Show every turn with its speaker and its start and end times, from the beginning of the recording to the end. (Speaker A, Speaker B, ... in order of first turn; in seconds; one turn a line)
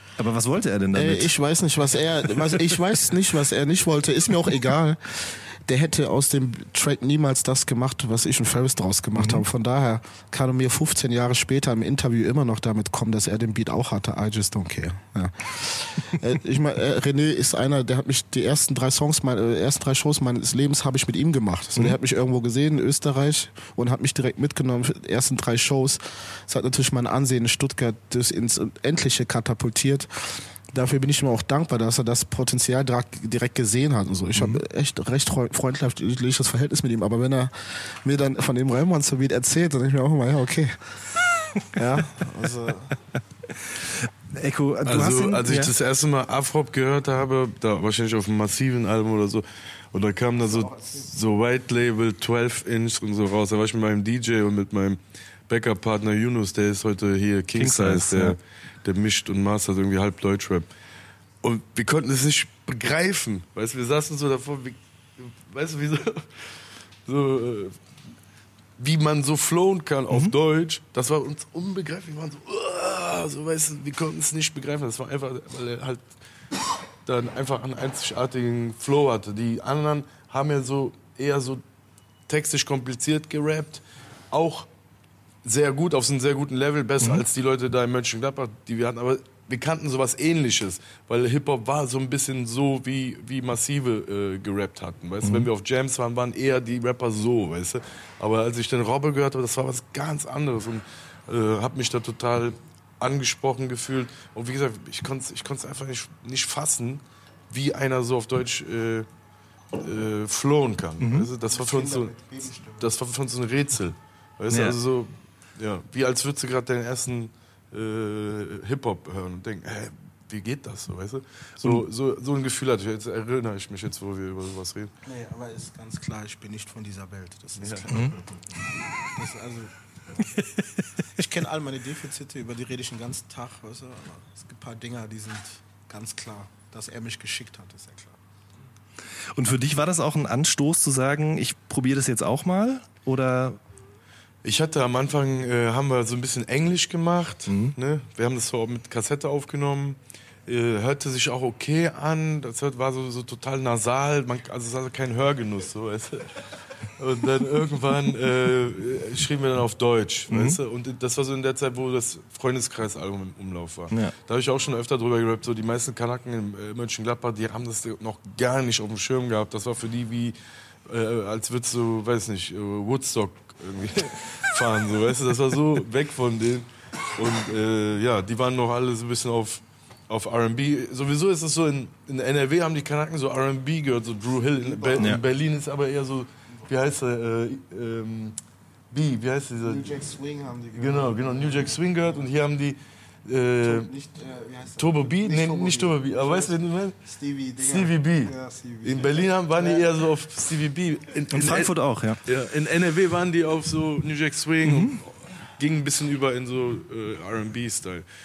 Speaker A: 0.2-1.3
Speaker B: 0.9-40.9
Speaker A: 9.1-9.4
Speaker A: 34.4-34.6
Speaker B: 41.7-43.0
Speaker A: 43.8-45.7
Speaker C: 44.9-60.7
Speaker B: 50.5-51.0
Speaker A: 57.5-58.4
Speaker C: 61.4-66.5
Speaker C: 67.0-67.8
Speaker C: 68.8-76.1
Speaker C: 77.0-81.6
Speaker C: 82.3-84.7
Speaker C: 85.4-109.1
Speaker A: 95.2-95.5
Speaker C: 109.7-112.1
Speaker A: 111.0-111.3
Speaker B: 111.5-112.9
Speaker C: 112.8-124.9
Speaker A: 114.5-114.8
Speaker B: 125.0-129.7
Speaker C: 127.6-127.9
Speaker A: 127.9-128.2
Speaker A: 130.3-130.8
Speaker B: 131.2-138.2
Speaker A: 139.3-143.6
Speaker C: 144.4-170.3
Speaker A: 147.5-147.8
Speaker A: 160.3-160.6
Speaker C: 170.9-188.4
Speaker B: 184.7-185.2
Speaker C: 188.9-189.9
Speaker B: 189.6-192.2
Speaker C: 190.8-193.9
Speaker B: 193.6-199.9
Speaker C: 194.8-197.0
Speaker C: 197.6-198.3
Speaker C: 198.8-201.7
Speaker A: 201.3-202.2
Speaker C: 202.2-208.0
Speaker A: 204.6-205.0